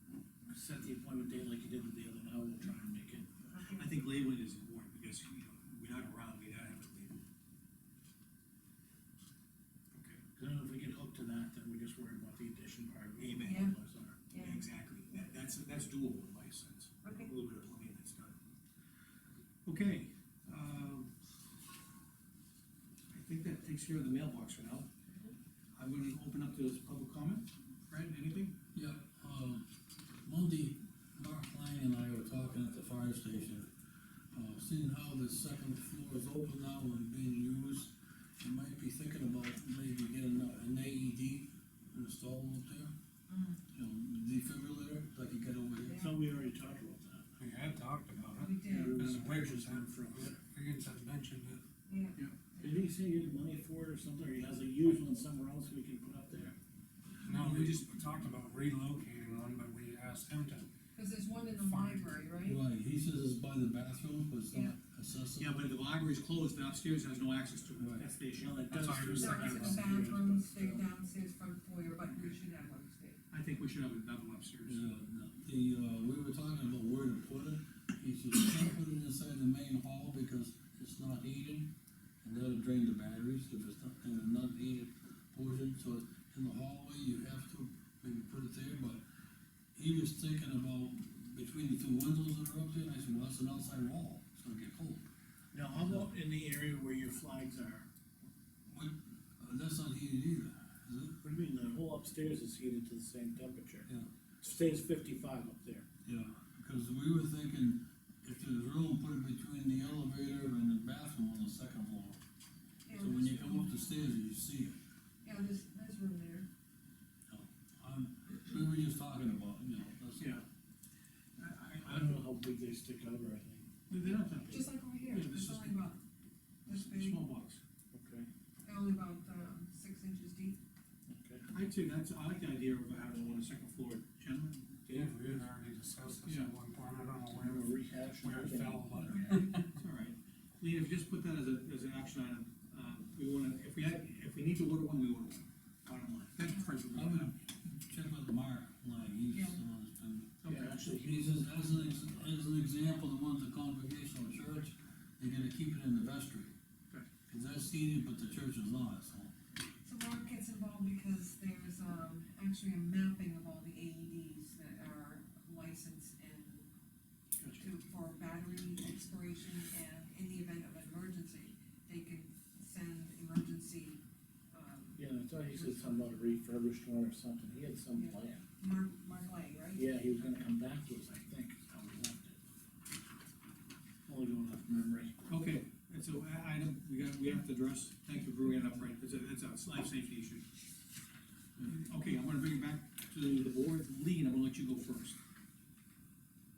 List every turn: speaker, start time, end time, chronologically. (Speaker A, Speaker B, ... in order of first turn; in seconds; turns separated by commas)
Speaker A: 0.5-3.4, Speaker B: 3.5-4.0, Speaker C: 3.7-7.2, Speaker C: 9.9-10.2, Speaker A: 10.3-14.2, Speaker C: 13.2-13.7, Speaker B: 13.4-13.8, Speaker B: 14.3-14.6, Speaker C: 14.3-18.4, Speaker B: 17.0-17.3, Speaker C: 19.6-21.1, Speaker C: 23.1-24.9, Speaker C: 25.8-28.6, Speaker D: 28.7-29.7, Speaker D: 30.2-33.7, Speaker D: 34.3-42.9, Speaker B: 43.3-43.6, Speaker D: 43.7-46.1, Speaker B: 45.8-46.2, Speaker A: 46.0-47.3, Speaker E: 47.4-51.6, Speaker B: 48.4-49.0, Speaker A: 48.7-50.4, Speaker B: 51.9-52.9, Speaker A: 52.6-56.6, Speaker E: 57.2-60.7, Speaker C: 57.3-58.0, Speaker B: 61.0-62.6, Speaker E: 61.6-62.1, Speaker D: 62.5-65.7, Speaker B: 64.5-64.8, Speaker C: 65.4-70.0, Speaker D: 67.8-68.1, Speaker A: 68.4-70.8, Speaker E: 68.7-70.0, Speaker B: 69.2-73.2, Speaker C: 73.3-74.8, Speaker D: 74.7-89.0, Speaker D: 89.8-95.0, Speaker A: 95.5-97.9, Speaker D: 95.8-96.1, Speaker D: 98.7-101.2, Speaker A: 101.2-103.9, Speaker A: 104.4-105.9, Speaker D: 106.0-112.2, Speaker B: 112.9-114.1, Speaker D: 112.9-114.8, Speaker B: 115.2-116.5, Speaker D: 117.3-120.4, Speaker C: 121.4-122.3, Speaker A: 121.8-123.7, Speaker C: 123.9-125.8, Speaker B: 124.0-126.0, Speaker B: 126.7-127.3, Speaker C: 126.7-127.6, Speaker A: 127.9-128.3, Speaker B: 128.7-130.6, Speaker A: 131.1-131.5, Speaker C: 131.5-135.2, Speaker E: 134.9-139.7, Speaker C: 136.2-136.5, Speaker A: 137.3-139.5, Speaker B: 139.1-139.5, Speaker C: 139.8-147.3, Speaker A: 146.0-146.2, Speaker B: 146.5-146.7, Speaker D: 146.9-156.5, Speaker B: 149.3-149.6, Speaker C: 150.4-150.7, Speaker A: 150.5-152.3, Speaker D: 157.3-159.3, Speaker B: 159.8-166.7, Speaker C: 167.4-167.7, Speaker B: 167.6-174.0, Speaker B: 174.5-176.1, Speaker A: 175.0-178.4, Speaker B: 177.9-179.9, Speaker A: 179.7-182.4, Speaker A: 184.1-185.2, Speaker C: 185.3-190.5, Speaker C: 191.6-195.2